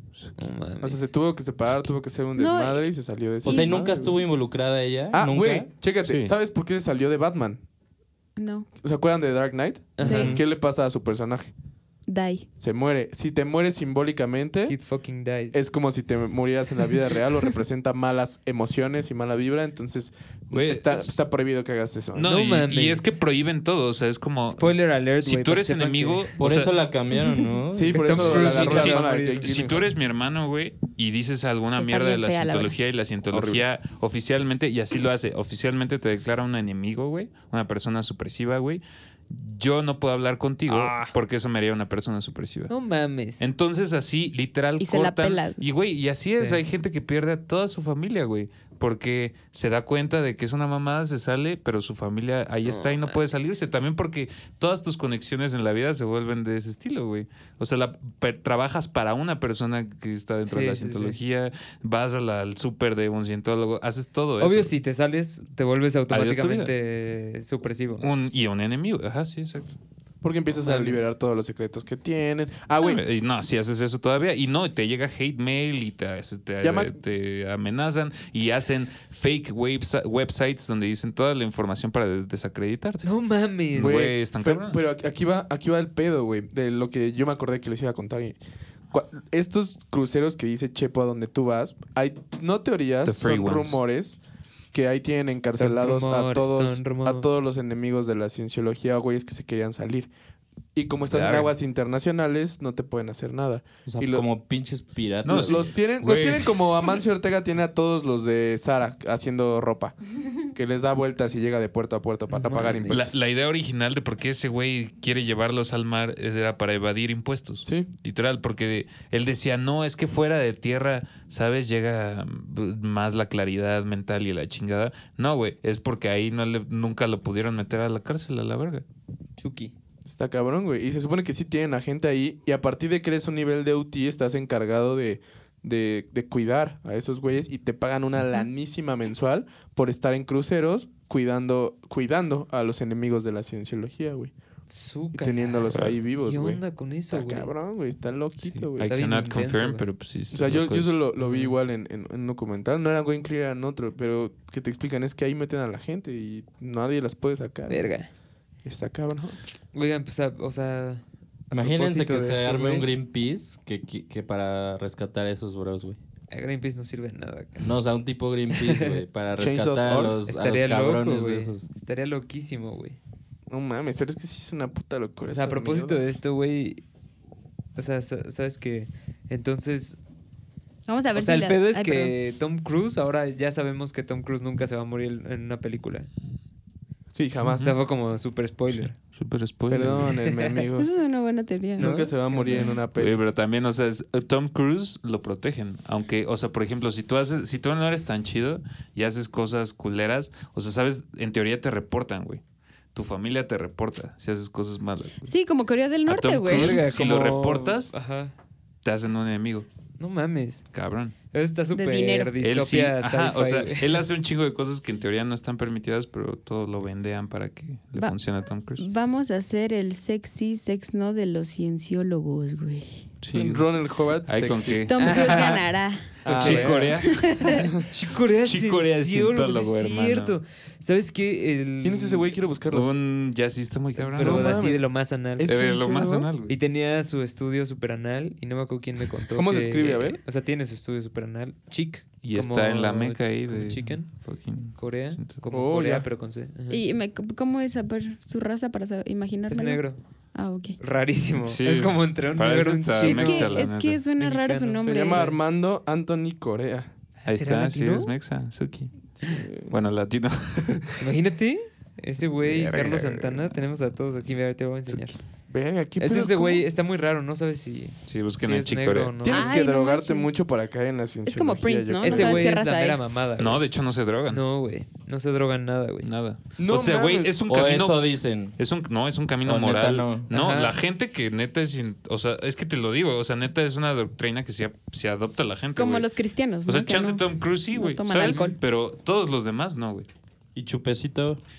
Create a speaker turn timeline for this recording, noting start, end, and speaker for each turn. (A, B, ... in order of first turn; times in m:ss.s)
0:00.4-0:01.1 A
0:00.8-0:04.2 B
0:02.4-0:02.8 C
0:03.4-0:05.7 D
0:03.4-0:03.9 C
0:05.1-0:07.6 B
0:06.0-0:06.3 E
0:08.4-0:08.7 C
0:08.8-0:11.5 B
0:10.0-0:10.4 A
0:10.0-0:10.4 C
0:12.1-0:12.5 C
0:12.6-0:14.8 B
0:14.6-0:15.6 A
0:15.5-0:22.3 B
0:20.5-0:21.1 E
0:22.1-0:26.7 E
0:22.2-0:23.2 A
0:24.5-0:26.3 A
0:26.4-0:28.8 D
0:27.2-0:27.5 C
0:27.7-0:29.8 B
0:27.9-0:29.7 A
0:28.2-0:42.7 E
0:31.8-0:32.7 C
0:33.3-0:33.6 B
0:40.7-0:41.1 A
0:42.7-0:43.5 A
0:43.4-1:04.7 E
0:44.8-0:45.6 C
0:52.7-0:53.2 A
1:00.4-1:01.2 A
1:04.4-1:08.1 A
1:06.1-1:06.7 E
1:08.0-1:09.8 E
1:10.2-1:13.0 B
1:10.6-1:11.1 A
1:12.8-1:23.1 E
1:16.6-1:17.0 B
1:23.0-1:24.1 A
1:23.7-1:24.8 E
1:23.8-1:28.4 B
1:28.9-1:34.2 B
1:33.0-1:33.8 E
1:34.7-1:40.1 B
1:35.5-1:37.3 A
1:40.7-1:44.2 B
1:41.1-1:41.5 E
1:43.8-1:45.7 D
1:45.2-1:46.8 E
1:45.3-1:50.0 B
1:50.5-1:53.1 B
1:52.3-1:53.1 A
1:52.9-2:08.8 E
2:09.4-2:09.7 A
2:10.0-2:24.3 B
2:24.7-2:27.5 A
2:25.1-2:28.9 B
2:28.5-2:31.0 E
2:28.8-2:29.8 A
2:30.3-2:37.9 B
2:31.2-2:31.6 A
2:37.7-2:38.1 A
2:38.6-2:39.4 B
2:39.7-2:42.9 A
2:41.5-2:46.0 D
2:46.3-2:47.7 A
2:47.6-2:51.6 D
2:48.5-2:49.0 A
2:49.4-2:50.2 B
2:50.2-2:53.0 A
2:53.5-2:56.0 B
2:55.3-2:56.8 A
2:57.8-3:00.0 A
3:00.9-3:02.1 C
3:01.1-3:06.1 A
3:07.1-3:07.7 B
3:07.4-3:07.7 E
3:07.6-3:08.9 A
3:08.8-3:10.2 E
3:09.7-3:10.9 B
3:10.1-3:10.6 A
3:10.8-3:12.0 C
3:11.8-3:12.8 A
3:11.8-3:13.2 B
3:13.0-3:22.4 E
3:22.9-3:25.3 E
3:25.2-3:26.8 C
3:26.1-3:28.0 E
3:26.5-3:28.3 A
3:28.8-3:29.7 E
3:30.0-3:30.6 A
3:30.7-3:31.1 E
3:31.3-3:34.0 A
3:31.7-3:32.3 C
3:32.4-3:38.9 E
3:38.8-3:43.0 C
3:43.2-3:43.7 E
3:43.3-3:45.1 B
3:44.2-3:45.3 E
3:44.9-3:46.2 C
3:45.0-3:45.6 A
3:46.2-3:47.0 B
3:46.2-3:47.6 E
3:46.2-3:52.3 A
3:47.0-3:47.6 C
3:48.4-3:50.4 E
3:51.8-3:52.9 B
3:52.7-3:54.7 E
3:54.0-3:55.6 A
3:54.1-3:56.3 B
3:55.4-3:56.5 E
3:56.4-4:04.1 A
3:59.3-4:00.2 B
4:02.2-4:05.4 E
4:04.7-4:06.8 A
4:05.5-4:06.1 B
4:06.7-4:09.8 C
4:09.5-4:10.0 A
4:10.3-4:10.8 C
4:10.8-4:15.4 A
4:11.4-4:14.0 E
4:13.0-4:15.2 C
4:14.8-4:16.9 B
4:17.2-4:18.1 A
4:17.2-4:21.1 E
4:19.2-4:19.7 B
4:21.0-4:25.2 A
4:22.4-4:23.3 E
4:25.5-4:26.6 B
4:26.0-4:29.6 A
4:28.0-4:29.3 E
4:29.3-4:30.3 C
4:29.3-4:32.6 B
4:31.2-4:33.1 C
4:32.0-4:33.6 A
4:33.4-4:34.4 E
4:34.3-4:36.1 A
4:36.0-4:46.1 E
4:36.6-4:37.4 B
4:37.5-4:38.6 D
4:39.4-4:40.3 D
4:40.3-4:40.8 A
4:45.8-4:48.6 C
4:46.6-4:50.1 E
4:50.5-4:51.4 D